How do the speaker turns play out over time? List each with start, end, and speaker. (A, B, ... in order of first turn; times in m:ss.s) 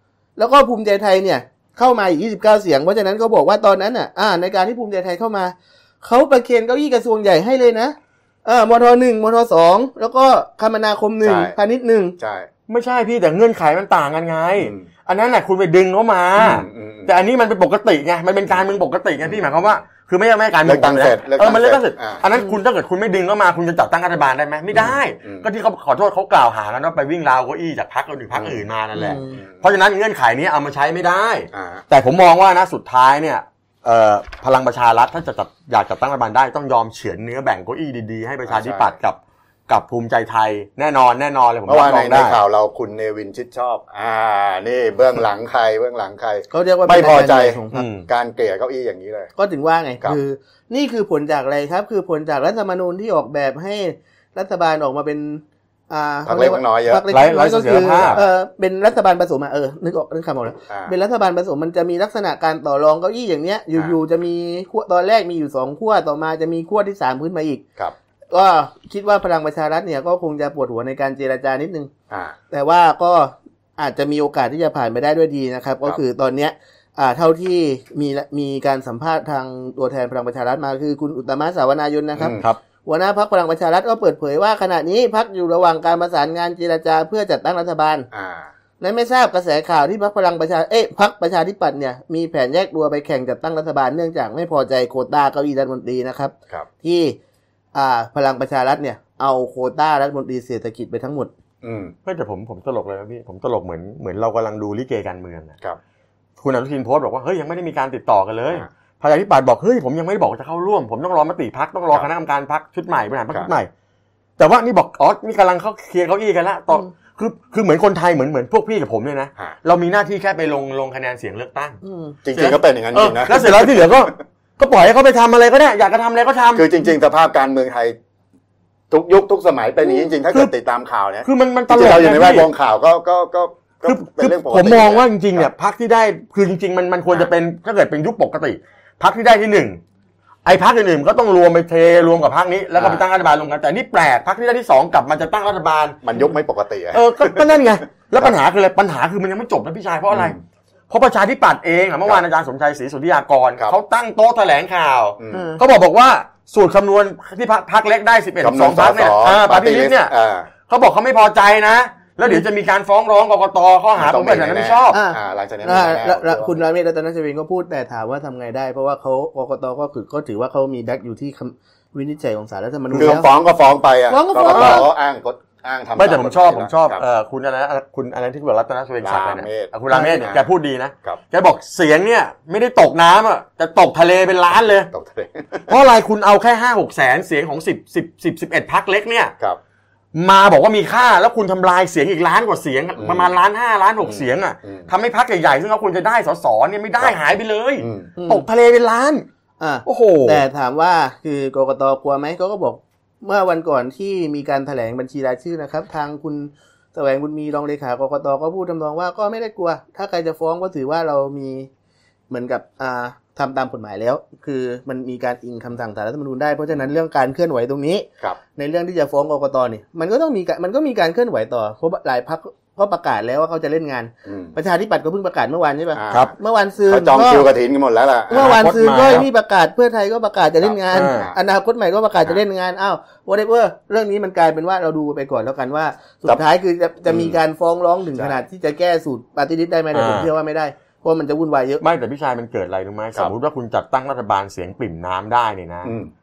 0:00.4-0:12.2 A
0:11.2-0:11.5 B
0:12.2-0:12.5 B
0:12.7-0:42.4 C
0:14.6-0:14.9 B
0:16.4-0:17.1 B
0:20.6-0:22.2 B
0:24.7-0:25.5 B
0:28.3-0:28.6 B
0:28.9-0:29.4 A
0:29.4-0:29.6 B
0:31.5-0:31.8 B
0:38.5-0:39.0 B
0:41.7-0:49.3 B
0:46.5-0:47.8 A
0:47.7-0:48.0 C
0:49.4-1:07.6 A
0:56.2-0:57.0 B
0:57.1-0:58.2 C
0:57.9-0:58.2 B
1:08.3-1:11.9 A
1:12.5-1:28.1 A
1:22.2-1:22.4 B
1:28.1-1:28.5 B
1:28.8-1:37.2 A
1:37.7-1:41.3 A
1:41.6-1:41.9 B
1:42.0-1:45.5 C
1:46.4-1:53.7 C
1:54.4-2:01.8 C
2:01.8-2:02.2 A
2:02.2-2:04.1 B
2:02.3-2:06.7 C
2:06.5-2:08.0 B
2:08.9-2:15.5 B
2:11.2-2:12.5 C
2:13.8-2:19.8 C
2:20.4-2:26.0 C
2:22.8-2:23.0 B
2:26.0-2:27.5 B
2:26.9-2:30.3 C
2:30.1-2:30.4 B
2:30.9-2:40.1 C
2:35.2-2:35.5 B
2:35.3-2:35.6 A
2:38.4-2:40.5 B
2:40.7-2:45.0 C
2:44.0-2:46.6 B
2:44.9-2:53.3 A
2:52.9-2:53.2 C
2:52.9-2:57.0 B
2:54.1-2:54.9 A
2:54.4-2:54.9 C
2:56.0-3:04.9 C
2:59.0-3:00.4 B
2:59.9-3:00.2 A
3:04.9-3:05.7 B
3:05.7-3:09.3 C
3:10.1-3:19.2 C
3:13.0-3:13.3 B
3:14.0-3:14.9 B
3:17.8-3:18.1 B
3:18.2-3:18.4 A
3:19.6-3:31.7 A
3:19.8-3:20.4 C
3:32.3-3:47.5 A
3:44.2-3:44.5 B
3:46.0-3:46.3 B
3:46.9-3:48.6 B
3:48.3-4:01.8 A
3:48.3-3:49.2 C
3:50.6-3:51.4 B
3:50.9-3:51.3 C
3:57.1-3:57.4 B
3:58.2-3:58.4 B
3:59.9-4:00.3 C
4:01.8-4:05.9 C
4:05.8-4:06.1 B